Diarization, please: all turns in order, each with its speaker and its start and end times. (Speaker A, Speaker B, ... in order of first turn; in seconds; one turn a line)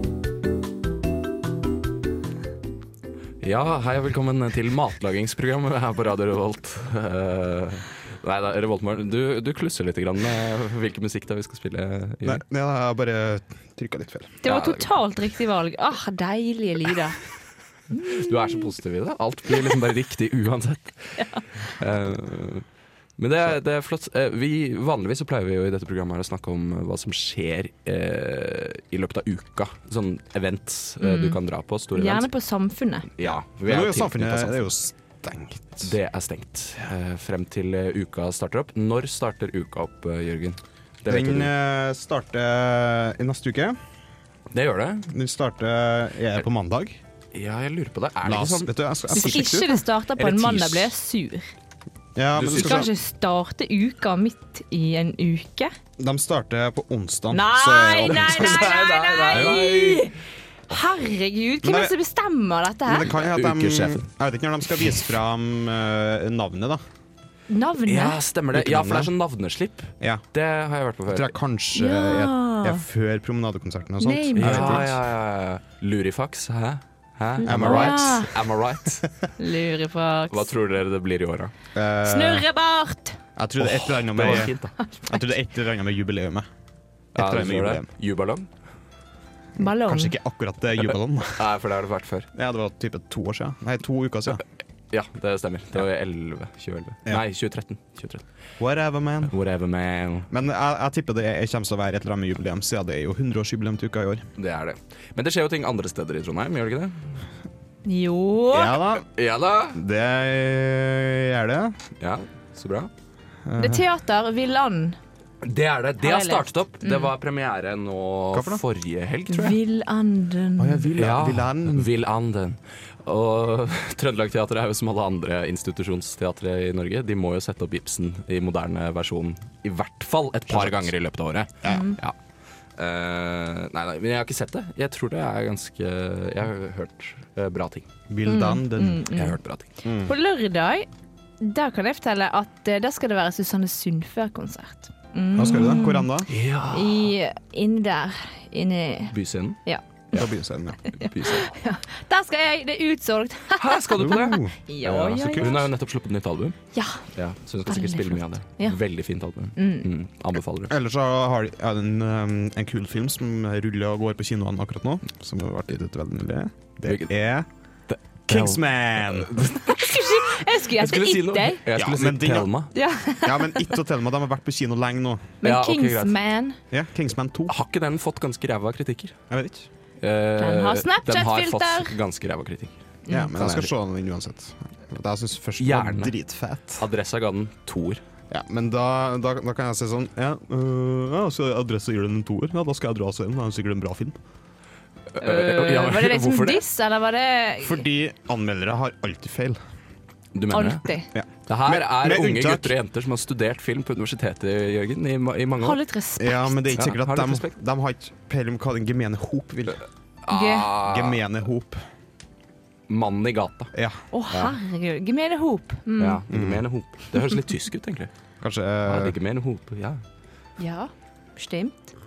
Speaker A: 3.4-12.4
Speaker B: 12.2-14.4
Speaker C: 14.4-17.2
Speaker A: 14.4-15.0
Speaker A: 18.0-22.6
Speaker C: 21.2-21.4
Speaker A: 23.2-32.3
Speaker C: 31.0-31.4
Speaker C: 31.9-33.1
Speaker A: 33.1-34.6
Speaker B: 33.2-35.9
Speaker A: 35.8-41.5
Speaker B: 41.0-43.8
Speaker A: 44.5-45.1
Speaker B: 45.1-47.0
Speaker A: 47.3-50.9
Speaker B: 48.2-49.7
Speaker C: 49.1-51.5
Speaker B: 52.1-52.9
Speaker A: 52.3-52.9
Speaker C: 52.6-55.7
Speaker B: 56.0-58.6
Speaker C: 57.3-60.1
Speaker A: 58.1-60.1
Speaker C: 60.7-63.1
Speaker B: 61.6-61.9
Speaker B: 62.9-66.8
Speaker A: 63.1-64.0
Speaker C: 67.5-68.2
Speaker A: 67.9-71.3
Speaker B: 68.5-69.1
Speaker B: 71.1-75.0
Speaker C: 71.8-72.8
Speaker C: 74.0-74.9
Speaker A: 74.4-79.3
Speaker C: 77.4-78.3
Speaker B: 77.4-78.3
Speaker C: 79.4-80.5
Speaker A: 80.3-81.5
Speaker B: 81.7-82.5
Speaker C: 82.0-83.2
Speaker B: 83.3-84.5
Speaker A: 83.6-84.8
Speaker C: 84.3-85.2
Speaker B: 85.0-86.5
Speaker B: 87.1-87.9
Speaker A: 87.1-88.5
Speaker C: 89.6-90.1
Speaker B: 89.6-91.5
Speaker A: 91.3-92.3
Speaker B: 92.3-94.4
Speaker A: 94.9-98.2
Speaker B: 98.6-99.3
Speaker A: 99.3-100.3
Speaker B: 100.3-104.3
Speaker A: 104.4-107.3
Speaker C: 107.8-108.8
Speaker B: 108.5-109.1
Speaker A: 109.1-109.8
Speaker B: 109.7-111.8
Speaker A: 112.0-112.9
Speaker B: 113.5-113.8
Speaker C: 113.6-115.0
Speaker A: 115.4-119.6
Speaker C: 116.0-117.1
Speaker B: 118.3-118.6
Speaker C: 119.3-120.9
Speaker B: 120.6-121.9
Speaker A: 121.0-132.2
Speaker B: 130.5-130.9
Speaker C: 131.7-132.0
Speaker A: 132.8-137.9
Speaker B: 138.1-139.1
Speaker C: 138.2-140.9
Speaker A: 139.1-139.7
Speaker B: 139.8-140.1
Speaker C: 141.4-146.1
Speaker B: 145.3-146.3
Speaker A: 146.3-147.1
Speaker C: 146.7-149.1
Speaker A: 149.1-149.6
Speaker C: 149.6-150.2
Speaker B: 150.1-150.9
Speaker A: 150.9-151.6
Speaker C: 150.9-155.6
Speaker A: 153.6-156.6
Speaker B: 154.0-155.6
Speaker C: 156.7-157.0
Speaker A: 157.1-160.7
Speaker C: 157.7-158.8
Speaker C: 159.6-159.9
Speaker B: 160.7-167.5
Speaker A: 166.8-167.2
Speaker A: 167.9-172.7
Speaker B: 168.3-169.3
Speaker C: 169.5-171.6
Speaker B: 171.7-172.5
Speaker C: 172.7-173.7
Speaker B: 173.2-175.3
Speaker C: 175.4-176.6
Speaker A: 175.4-176.1
Speaker B: 176.7-177.5
Speaker A: 177.5-179.2
Speaker B: 179.3-179.7
Speaker A: 180.0-182.8
Speaker C: 180.4-181.9
Speaker C: 183.1-183.3
Speaker B: 183.1-186.8
Speaker A: 183.3-183.7
Speaker A: 185.6-186.2
Speaker A: 186.8-188.0
Speaker B: 188.3-194.2
Speaker A: 195.1-196.6
Speaker C: 195.2-197.8
Speaker B: 197.6-199.6
Speaker A: 200.3-200.9
Speaker C: 200.5-201.1
Speaker B: 201.1-202.7
Speaker A: 201.4-205.8
Speaker C: 205.6-206.8
Speaker B: 206.2-209.8
Speaker A: 206.8-207.5
Speaker A: 210.2-211.2
Speaker C: 210.3-210.7
Speaker B: 210.7-211.8
Speaker A: 212.9-213.7
Speaker B: 213.7-214.0
Speaker C: 214.1-216.2
Speaker A: 216.0-218.1
Speaker B: 216.3-216.6
Speaker B: 218.4-219.2
Speaker A: 218.8-220.0
Speaker C: 220.6-221.9